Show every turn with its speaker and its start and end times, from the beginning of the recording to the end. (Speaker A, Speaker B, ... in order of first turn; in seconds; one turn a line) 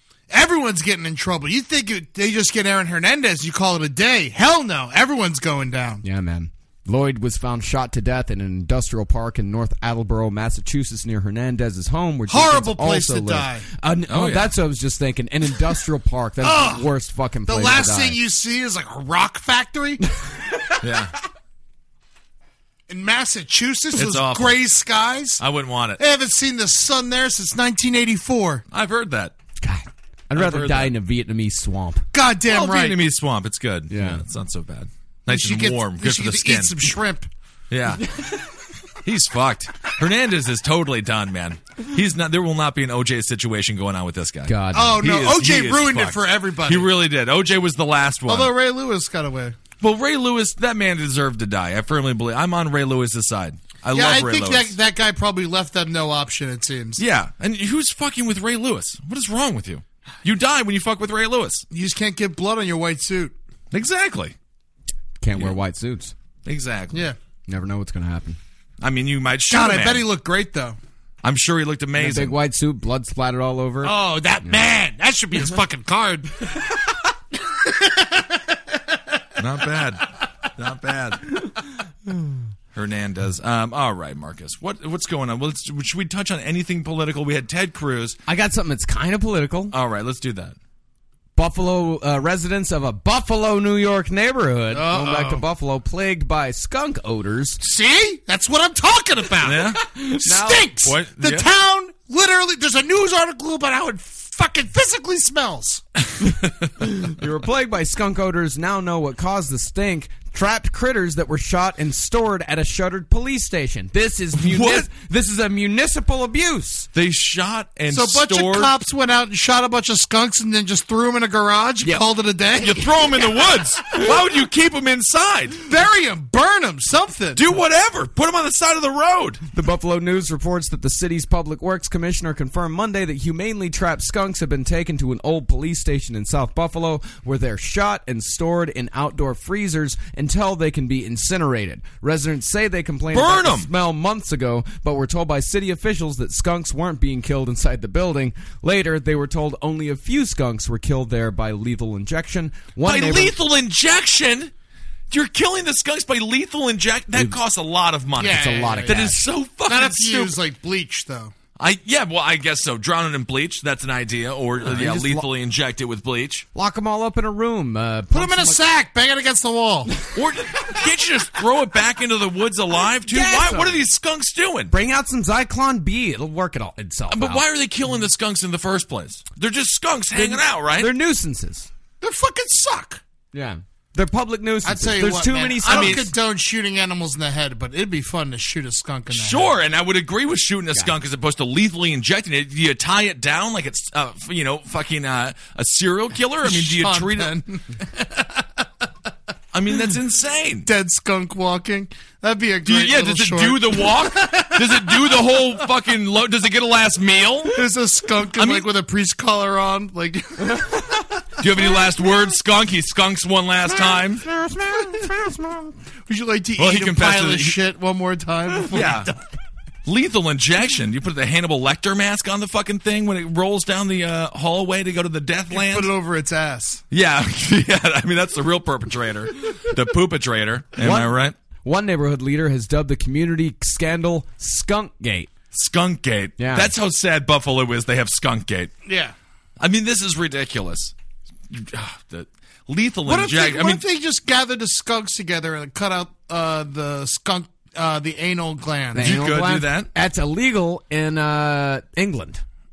Speaker A: 0.3-6.0
Speaker B: 6.0-18.2
Speaker A: 12.3-13.7
Speaker C: 14.1-14.5
Speaker A: 16.4-16.9
Speaker A: 17.5-20.0
Speaker C: 20.8-21.1
Speaker A: 22.9-25.4
Speaker C: 23.9-24.6
Speaker C: 25.4-26.0
Speaker A: 26.0-28.6
Speaker C: 28.7-29.4
Speaker B: 29.6-32.0
Speaker C: 30.3-30.9
Speaker A: 32.1-33.0
Speaker C: 32.5-36.8
Speaker B: 33.9-34.2
Speaker A: 35.3-37.3
Speaker C: 37.7-38.1
Speaker C: 39.0-48.5
Speaker B: 44.5-45.1
Speaker A: 44.7-46.9
Speaker A: 48.3-49.6
Speaker C: 49.8-54.8
Speaker A: 53.9-57.0
Speaker C: 57.0-61.6
Speaker A: 61.7-63.4
Speaker C: 63.7-64.3
Speaker B: 65.2-66.1
Speaker C: 66.5-67.1
Speaker B: 67.5-68.4
Speaker C: 68.8-70.1
Speaker A: 69.5-70.8
Speaker C: 71.2-72.4
Speaker B: 72.0-74.6
Speaker A: 73.8-76.7
Speaker A: 77.5-78.4
Speaker C: 79.4-81.3
Speaker C: 82.7-88.2
Speaker B: 88.3-89.8
Speaker C: 89.7-90.6
Speaker B: 91.3-97.6
Speaker A: 94.7-95.4
Speaker A: 97.6-105.8
Speaker C: 99.4-99.8
Speaker B: 100.0-100.7
Speaker C: 100.8-101.5
Speaker C: 106.3-106.7
Speaker B: 106.8-116.9
Speaker C: 114.3-114.9
Speaker C: 116.9-118.7
Speaker A: 117.9-122.9
Speaker C: 122.6-125.6
Speaker A: 125.7-127.4
Speaker C: 127.3-129.4
Speaker B: 129.5-153.3
Speaker C: 143.1-143.7
Speaker C: 152.8-154.5
Speaker C: 155.1-160.4
Speaker A: 158.2-161.3
Speaker B: 158.2-159.2
Speaker C: 161.6-166.5
Speaker B: 164.6-165.3
Speaker B: 166.6-168.6
Speaker A: 168.1-170.0
Speaker C: 170.1-174.7
Speaker B: 173.1-173.8
Speaker B: 174.7-177.4
Speaker C: 177.1-180.9
Speaker B: 180.2-181.7
Speaker A: 182.0-183.0
Speaker B: 183.3-186.1
Speaker A: 184.6-189.5
Speaker C: 185.6-186.1
Speaker C: 189.1-197.4
Speaker A: 196.4-198.5
Speaker C: 199.5-200.7
Speaker A: 200.7-205.4
Speaker C: 202.7-207.6
Speaker A: 207.5-211.0
Speaker C: 208.4-208.7
Speaker C: 211.4-214.2
Speaker B: 214.2-215.7
Speaker A: 216.1-219.2
Speaker C: 216.6-217.6
Speaker C: 218.7-219.1
Speaker C: 219.8-225.9
Speaker A: 225.5-226.8
Speaker C: 226.9-231.3
Speaker B: 230.8-235.3
Speaker C: 235.5-238.7
Speaker B: 236.4-236.7
Speaker A: 238.8-239.1
Speaker C: 239.6-240.9
Speaker C: 241.5-243.8
Speaker A: 243.1-249.2
Speaker B: 248.9-252.4
Speaker C: 249.0-249.9